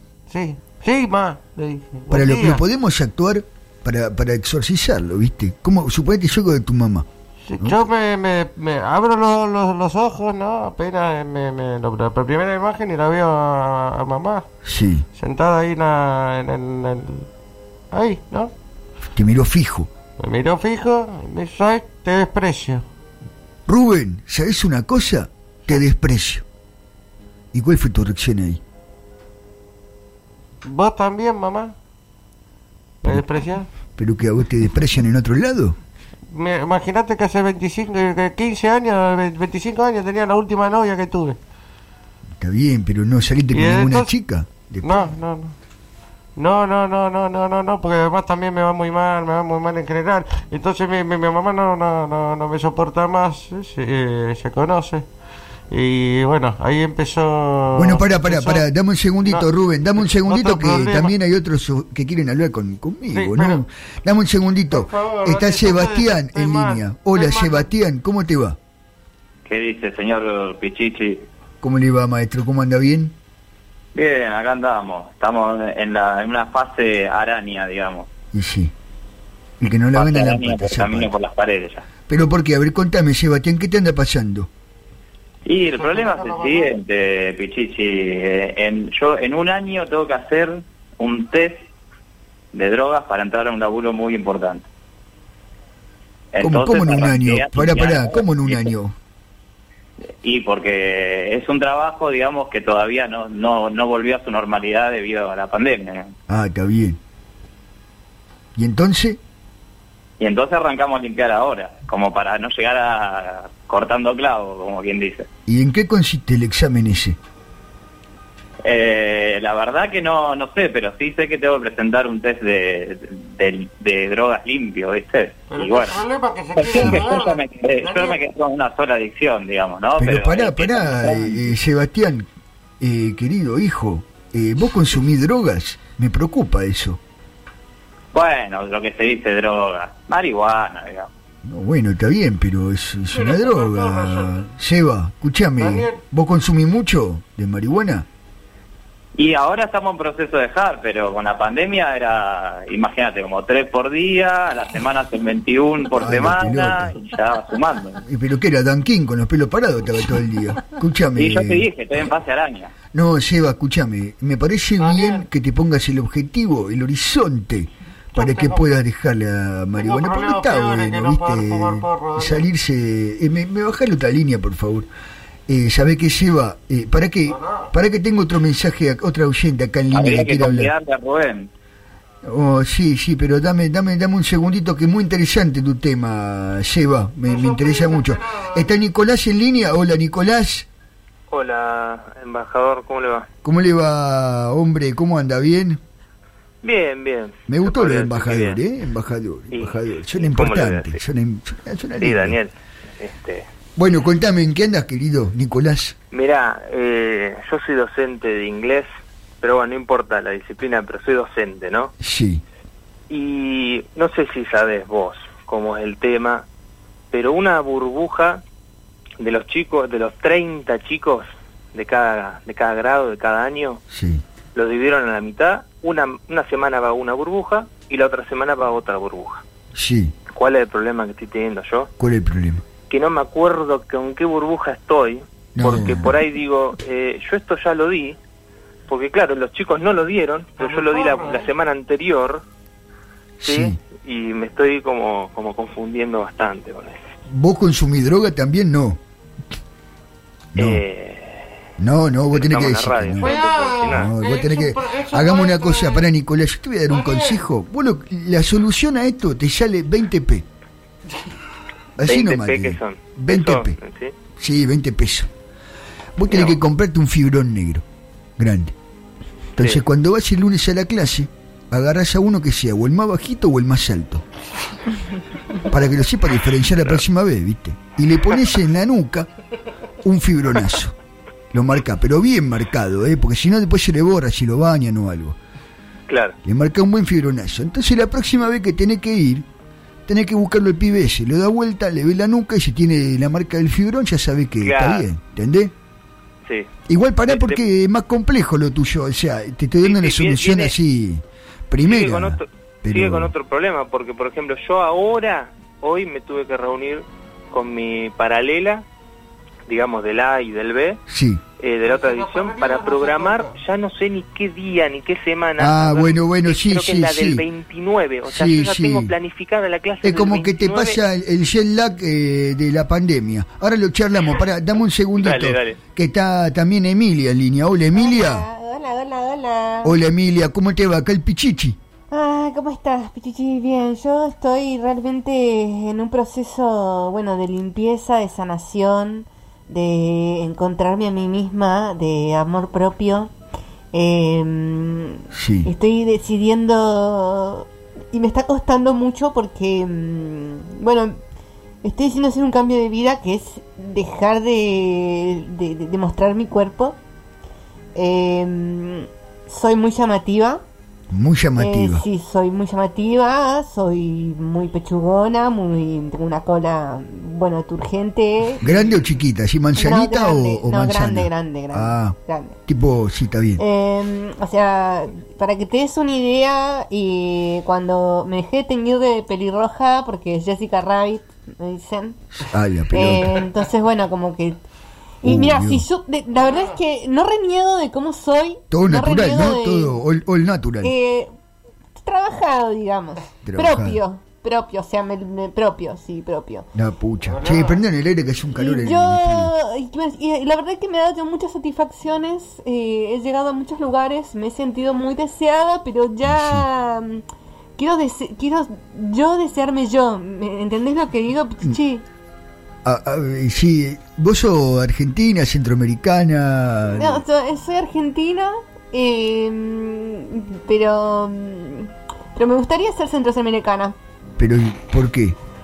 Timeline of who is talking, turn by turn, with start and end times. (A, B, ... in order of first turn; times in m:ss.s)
0:00.3-0:02.6 A
0:02.1-0:07.0 B
0:07.4-0:14.4 A
0:07.6-0:07.8 B
0:14.6-0:15.0 B
0:15.2-0:17.3 A
0:17.9-0:18.5 A
0:19.2-0:19.9 B
0:20.2-0:22.8 A
0:23.7-0:26.4 B
0:27.5-0:28.6 B
0:30.6-0:31.7 A
0:33.0-0:33.7 A
0:34.0-0:35.7 B
0:36.3-0:41.4 A
0:42.4-0:45.1 B
0:43.5-0:44.1 A
0:44.8-0:45.5 A
0:46.4-0:55.0 A
0:55.7-0:58.7 A
0:57.7-1:08.6 B
1:00.0-1:01.1 A
1:03.1-1:03.6 A
1:04.7-1:07.7 A
1:09.4-1:11.2 C
1:11.6-1:13.1 B
1:13.9-1:18.1 C
1:18.3-1:18.7 B
1:19.6-1:21.1 B
1:19.9-1:21.8 C
1:22.1-1:24.5 B
1:25.4-1:31.6 C
1:25.7-1:26.8 A
1:32.5-1:34.6 C
1:36.3-1:38.7 C
1:36.4-1:38.9 B
1:40.2-1:46.1 C
1:46.3-1:47.0 B
1:48.6-1:49.2 B
1:50.2-1:55.2 C
1:55.5-1:57.2 B
1:58.6-2:06.0 C
2:05.5-2:08.2 A
2:06.6-2:11.5 C
2:06.7-2:07.1 B
2:10.0-2:12.3 B
2:12.8-2:17.0 B
2:18.1-2:21.1 C
2:21.4-2:28.0 B
2:23.1-2:24.4 A
2:25.6-2:26.0 A
2:29.2-2:38.0 C
2:36.0-2:37.0 B
2:38.0-2:41.7 B
2:41.2-2:42.7 C
2:42.9-2:54.9 B
2:44.8-2:45.3 A
2:48.1-2:48.6 A
2:49.8-2:52.5 A
2:55.5-3:00.7 B
2:57.3-2:57.7 A
2:59.9-3:01.5 C
3:02.2-3:10.6 B
3:07.2-3:08.7 A
3:11.3-3:13.2 D
3:13.4-3:15.8 B
3:16.6-3:18.6 D
3:17.5-3:22.4 B
3:19.5-3:21.0 D
3:22.0-3:23.4 D
3:23.8-3:26.0 B
3:26.1-3:28.9 D
3:29.4-3:31.9 D
3:32.0-3:32.4 B
3:33.1-3:36.4 D
3:37.1-3:38.4 D
3:39.2-3:43.8 D
3:43.9-3:44.2 B
3:44.5-3:49.4 D
3:49.7-3:50.1 B
3:50.3-3:51.9 D
3:52.0-3:52.6 B
3:52.9-3:58.2 D
3:55.5-3:56.2 B
3:58.9-4:02.4 D
4:00.6-4:01.5 A
4:03.4-4:03.8 B
4:03.4-4:07.0 D
4:07.3-4:09.0 B
4:10.6-4:10.8 B
4:10.6-4:11.5 D
4:11.8-4:13.3 B
4:12.3-4:14.1 D
4:13.2-4:16.1 A
4:13.9-4:20.4 B
4:16.9-4:17.4 A
4:22.0-4:23.7 B
4:22.0-4:24.1 D
4:24.4-4:25.3 B
4:26.2-4:27.8 B
4:26.3-4:26.6 D
4:28.4-4:28.7 B
4:29.6-4:34.2 B
4:35.7-4:39.3 B
4:40.0-4:40.9 B
4:41.5-4:45.4 B
4:46.1-4:46.3 D
4:46.4-4:49.4 B
4:50.1-4:55.7 B
4:54.6-4:55.1 D
4:56.9-5:03.3 B
4:57.3-4:57.6 D
4:59.8-5:00.7 D
5:01.8-5:08.8 D
5:09.7-5:11.0 D
5:11.1-5:11.4 B
5:11.6-5:21.0 D
5:11.8-5:13.6 A
5:15.6-5:17.4 B
5:18.3-5:19.1 B
5:20.0-5:28.4 B
5:25.2-5:25.6 D
5:25.4-5:25.8 C
5:27.9-5:30.0 E
5:29.8-5:31.8 B
5:32.1-5:43.3 E
5:43.9-5:51.2 E
5:45.3-5:45.7 B
5:51.8-5:57.0 E
5:57.9-6:00.6 E
6:01.1-6:02.0 B
6:01.6-6:08.6 E
6:08.6-6:13.6 B
6:09.7-6:12.6 E
6:13.6-6:22.2 E
6:22.4-6:23.4 B
6:22.9-6:24.6 E
6:25.2-6:30.0 E
6:25.2-6:25.8 B
6:28.7-6:30.9 B
6:30.8-6:31.3 E
6:32.0-6:36.7 E
6:33.4-6:34.0 B
6:36.7-6:39.5 B
6:37.2-6:37.8 A
6:38.6-6:47.2 E
6:46.2-6:46.6 B
6:47.8-6:52.0 E
6:52.8-6:57.2 B
6:56.9-7:03.9 E
7:04.4-7:05.4 B